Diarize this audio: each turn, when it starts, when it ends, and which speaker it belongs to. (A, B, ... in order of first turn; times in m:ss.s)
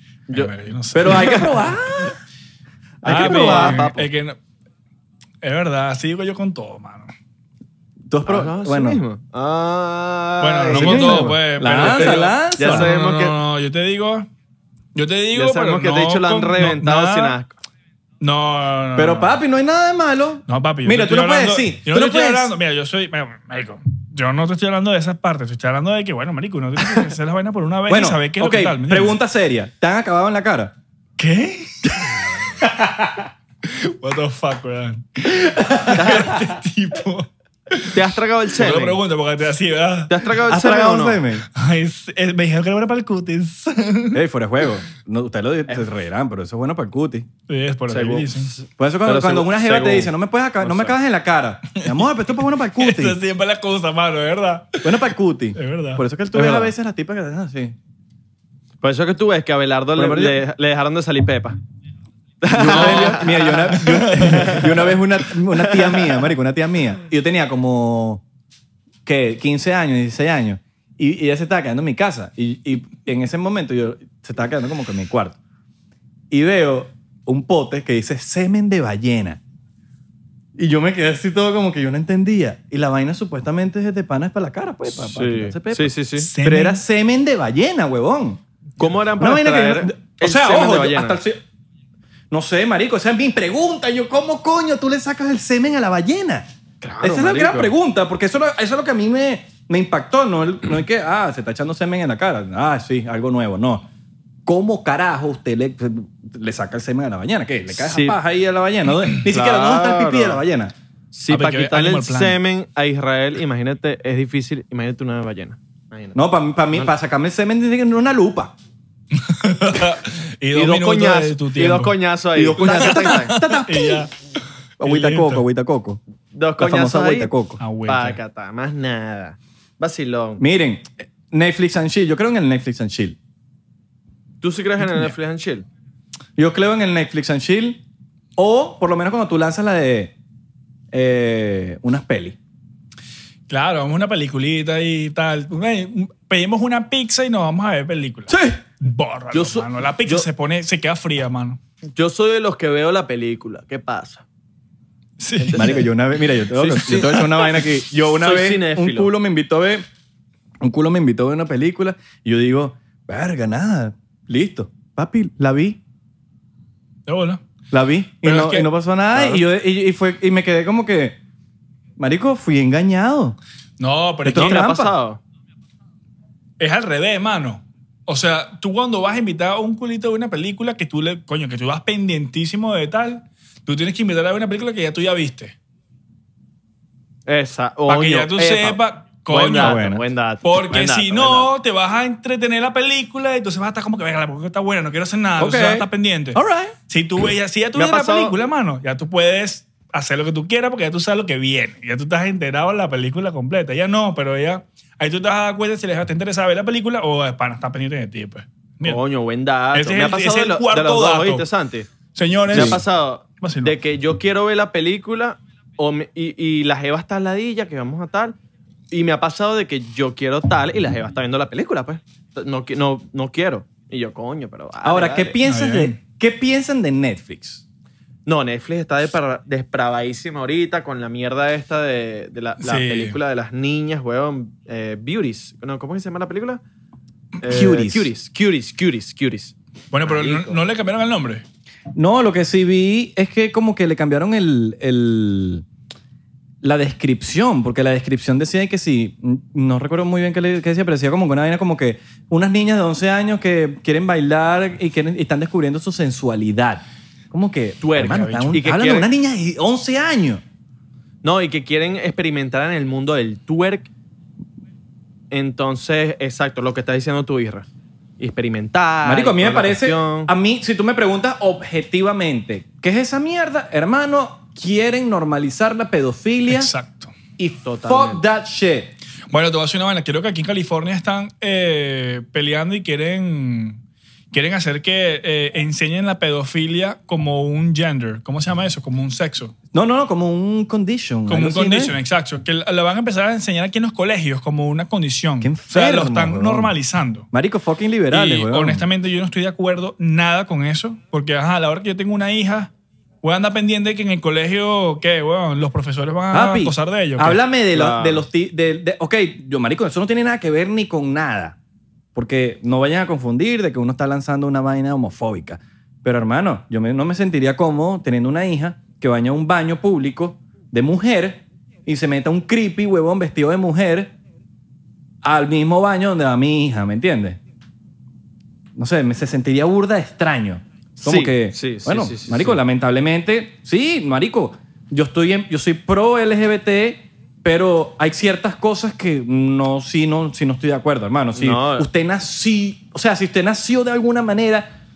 0:00.3-0:01.5 A
0:00.9-0:02.2 B
0:01.1-0:01.4 C
0:03.0-0:04.1 C
0:03.0-0:03.8 B
0:03.0-0:04.4 A
0:05.4-0:07.1 A
0:08.1-0:09.0 B
0:08.3-0:13.4 C
0:10.4-0:14.3 A
0:10.7-0:12.9 B
0:15.0-0:17.4 A
0:15.3-0:17.5 C
0:18.2-0:19.3 A
0:19.0-0:22.5 B
0:20.5-0:29.2 A
0:27.9-0:30.7 B
0:31.2-0:32.3 A
0:32.6-0:33.2 B
0:33.6-0:38.0 A
0:35.4-0:36.4 B
0:36.0-0:36.3 C
0:37.9-0:39.0 C
0:38.6-0:40.3 A
0:40.1-0:41.2 C
0:40.5-0:41.5 B
0:41.5-0:44.2 A
0:44.1-0:47.3 B
0:47.5-0:48.5 A
0:47.9-0:50.9 C
0:48.8-0:53.2 B
0:52.8-0:55.0 A
0:54.8-0:57.8 B
0:55.6-0:56.0 A
0:56.3-0:56.7 C
0:58.8-1:01.6 C
1:00.0-1:00.4 B
1:02.4-1:04.7 C
1:02.5-1:08.2 B
1:02.6-1:04.8 A
1:09.0-1:15.4 B
1:16.3-1:19.4 B
1:20.6-1:28.4 B
1:24.9-1:26.3 C
1:26.2-1:26.8 A
1:28.8-1:31.2 C
1:29.2-1:31.4 B
1:32.3-1:36.5 B
1:36.8-1:37.7 C
1:37.0-1:43.9 B
1:44.5-1:50.7 B
1:47.7-1:48.2 C
1:49.2-1:50.4 C
1:51.1-1:56.2 C
1:51.3-1:52.4 A
1:56.1-1:58.5 B
1:59.2-2:02.0 A
2:00.5-2:03.4 C
2:02.4-2:04.1 B
2:02.6-2:04.1 A
2:04.8-2:05.4 A
2:04.8-2:06.0 B
2:06.3-2:07.3 C
2:06.6-2:07.6 B
2:07.6-2:08.2 A
2:07.9-2:10.4 C
2:10.4-2:13.2 B
2:14.4-2:15.7 C
2:16.4-2:17.8 B
2:18.4-2:20.1 B
2:20.9-2:22.4 B
2:23.5-2:31.6 A
2:28.3-2:28.6 B
2:29.3-2:30.3 C
2:32.0-2:34.2 C
2:35.2-2:35.9 A
2:35.4-2:35.9 C
2:35.6-2:39.8 B
2:36.6-2:39.1 C
2:40.6-2:45.8 B
2:47.1-2:47.4 A
2:47.7-2:51.2 B
2:48.2-2:48.7 A
2:49.1-2:49.4 C
2:52.0-2:53.4 B
2:53.8-2:54.6 A
2:54.2-2:54.9 B
2:54.3-2:55.2 C
2:56.6-3:05.6 A
3:07.3-3:11.5 C
3:07.9-3:09.9 A
3:09.6-3:10.0 B
3:10.4-3:29.0 A
3:15.4-3:16.8 B
3:17.8-3:18.4 C
3:28.8-3:31.9 C
3:29.7-3:31.5 A
3:32.1-3:32.8 A
3:32.5-3:38.4 C
3:32.5-3:32.8 B
3:33.4-3:33.8 A
3:38.9-3:45.4 C
3:44.8-3:47.6 B
3:45.4-3:46.0 A
3:48.3-3:56.6 C
3:52.6-3:53.2 A
3:57.4-3:59.6 C
3:57.4-3:58.1 B
3:59.9-4:01.4 A
4:00.1-4:00.6 C
4:01.9-4:05.6 B
4:06.6-4:20.4 B
4:17.8-4:19.1 C
4:21.2-4:23.9 C
4:25.3-4:27.7 C
4:28.2-4:30.3 C
4:29.0-4:36.7 B
4:36.5-4:37.1 A
4:37.4-4:39.0 B
4:37.6-4:38.2 C
4:39.3-4:43.8 A
4:44.3-4:49.5 A
4:49.7-4:52.0 B
4:51.3-4:57.3 A
4:55.4-4:56.7 B
4:57.3-4:58.9 B
4:58.1-5:02.7 A
5:03.2-5:07.4 A
5:06.3-5:11.6 B
5:07.7-5:08.2 C
5:12.1-5:24.1 B
5:25.2-5:27.4 B
5:28.8-5:44.7 B
5:31.0-5:32.6 C
5:41.4-5:41.9 C